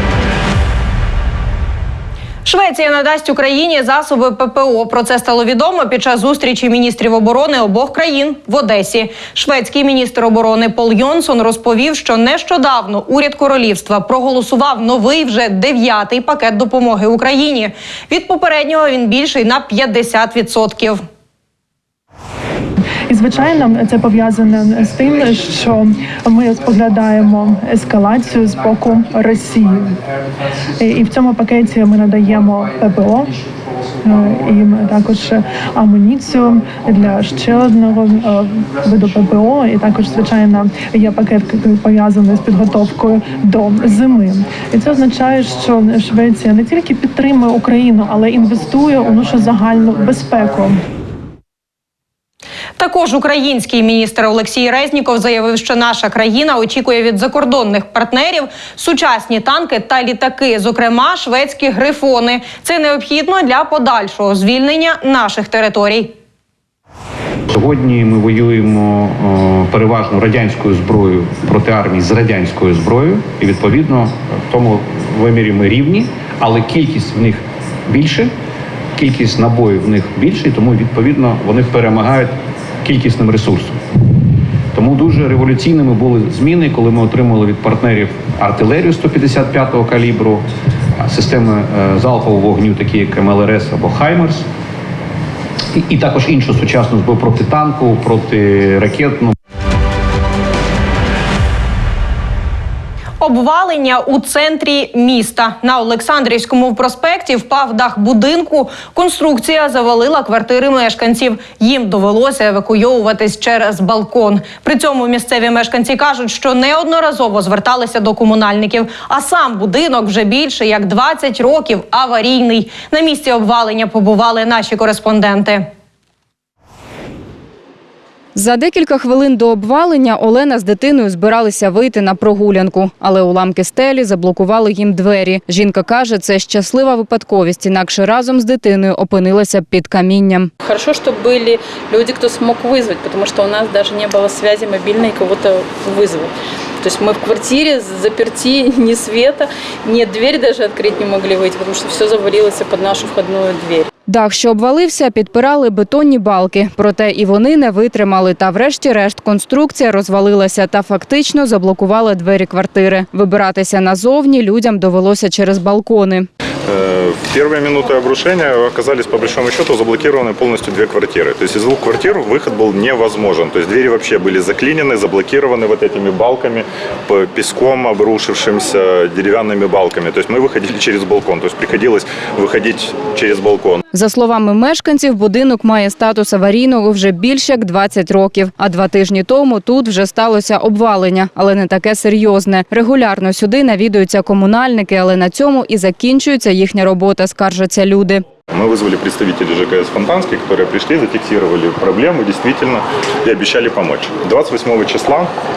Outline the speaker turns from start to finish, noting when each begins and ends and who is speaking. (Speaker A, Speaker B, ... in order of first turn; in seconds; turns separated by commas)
Speaker A: 2.4-21.0, Speaker B: 23.1-30.0, Speaker B: 30.8-33.3, Speaker B: 34.0-50.8, Speaker A: 52.8-66.1, Speaker C: 67.5-78.3, Speaker C: 79.0-83.8, Speaker C: 84.7-90.4, Speaker C: 91.0-94.4, Speaker C: 95.7-99.3, Speaker A: 103.2-125.6, Speaker D: 128.3-140.5, Speaker E: 140.6-153.9, Speaker D: 154.1-166.3, Speaker F: 166.7-183.8, Speaker D: 183.9-198.2, Speaker F: 198.5-205.3